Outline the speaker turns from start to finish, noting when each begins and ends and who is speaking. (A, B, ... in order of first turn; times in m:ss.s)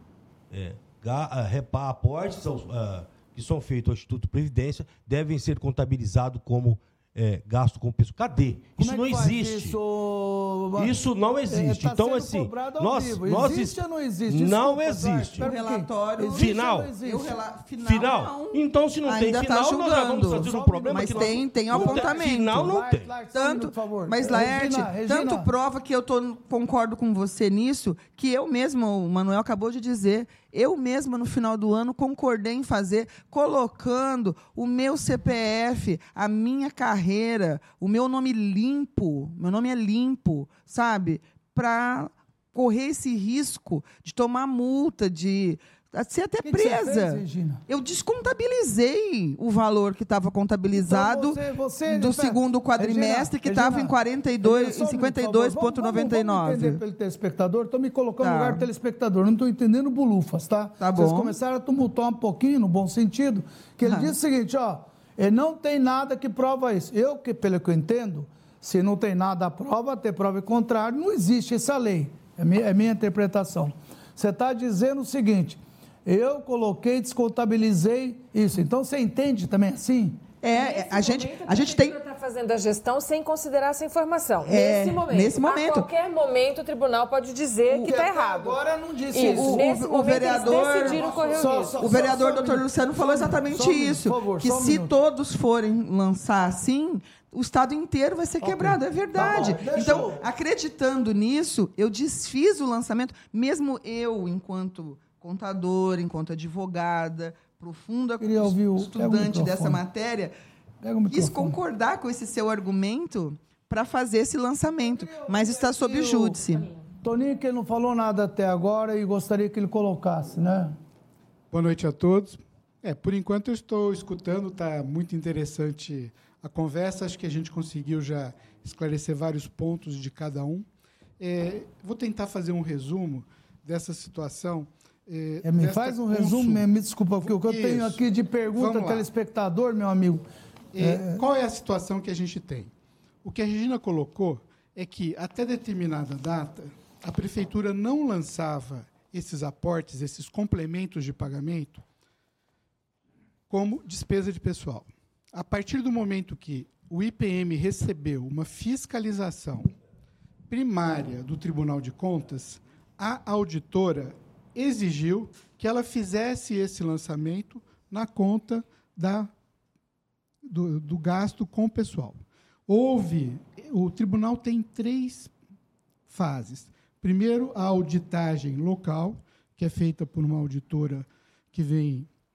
0:00.5-0:09.8 A
0:08.8-0:10.9 B
0:10.8-0:15.5 A
0:11.5-0:17.4 B
0:15.4-0:22.7 C
0:16.3-0:16.9 A
0:17.8-0:23.2 A
0:20.3-0:25.5 B
0:23.3-0:56.8 C
0:46.4-0:47.6 B
0:50.7-1:20.2 B
0:58.2-0:58.7 C
1:00.8-1:01.4 C
1:03.8-1:04.2 C
1:20.4-1:22.0 C
1:20.5-1:28.6 D
1:24.4-1:25.9 C
1:27.7-1:28.0 C
1:27.8-1:34.9 B
1:29.1-1:32.1 D
1:29.2-1:31.1 C
1:31.8-1:50.3 C
1:38.4-1:40.2 B
1:48.2-1:49.8 B
1:50.8-1:51.6 B
1:51.1-1:56.7 C
1:54.9-1:56.4 B
1:56.6-1:56.9 D
1:57.0-2:00.8 B
2:01.5-2:10.7 E
2:11.2-2:16.7 E
2:15.4-2:20.2 B
2:17.2-2:18.0 E
2:18.6-2:19.1 E
2:20.7-2:22.7 E
2:20.8-2:21.2 B
2:23.2-2:31.8 E
2:33.5-2:39.7 E
2:40.5-2:49.3 E
2:50.4-2:55.3 E
2:56.1-3:02.1 E